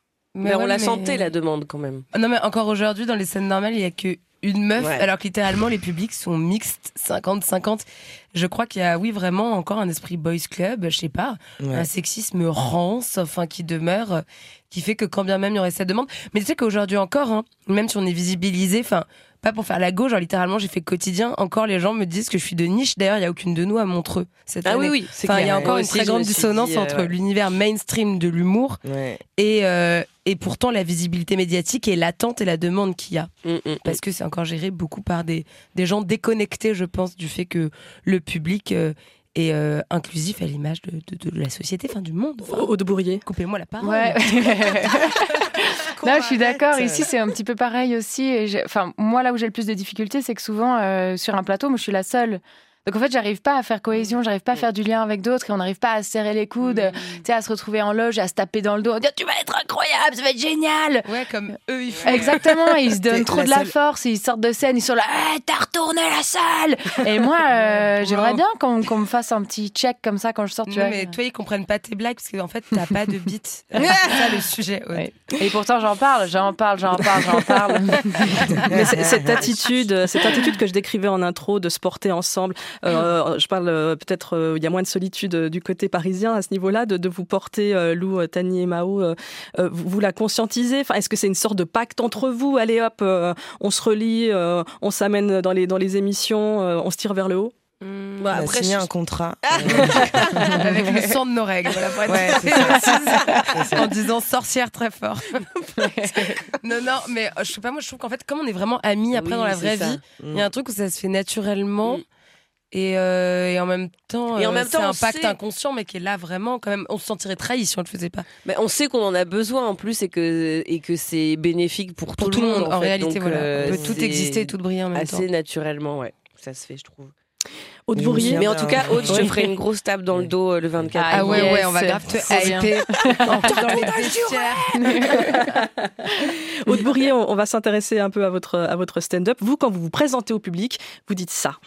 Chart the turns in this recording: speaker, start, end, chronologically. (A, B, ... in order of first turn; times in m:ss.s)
0:00.3-0:01.3 A
0:00.4-0:02.1 B
0:02.1-0:28.8 A
0:04.8-0:05.1 B
0:11.6-0:11.9 C
0:24.6-0:27.1 B
0:25.4-0:25.7 C
0:28.8-0:29.2 C
0:29.4-0:33.3 A
0:33.4-0:34.0 B
0:33.8-0:45.4 A
0:42.4-0:43.2 D
0:43.8-1:01.1 E
0:46.0-0:47.0 C
0:56.9-0:57.2 A
1:01.1-1:02.6 A
1:02.0-1:11.2 E
1:03.1-1:03.7 C
1:07.5-1:08.4 A
1:10.7-1:15.1 A
1:14.9-1:18.7 E
1:18.6-1:37.6 D
1:18.7-1:19.4 C
1:37.8-1:38.6 A
1:38.2-1:38.9 B
1:38.3-1:40.5 C
1:39.4-1:40.8 B
1:39.7-1:52.0 A
1:42.0-1:44.0 C
1:42.2-1:43.6 B
1:46.0-1:46.4 E
1:49.1-1:50.0 B
1:50.2-1:50.5 C
1:52.7-1:58.3 A
1:54.4-1:55.4 B
1:58.4-2:07.1 B
2:02.2-2:05.3 A
2:03.6-2:04.0 C
2:07.9-2:09.6 D
2:08.0-2:09.3 C
2:08.2-2:11.7 B
2:11.0-2:16.3 E
2:11.1-2:15.3 A
2:14.9-2:21.6 D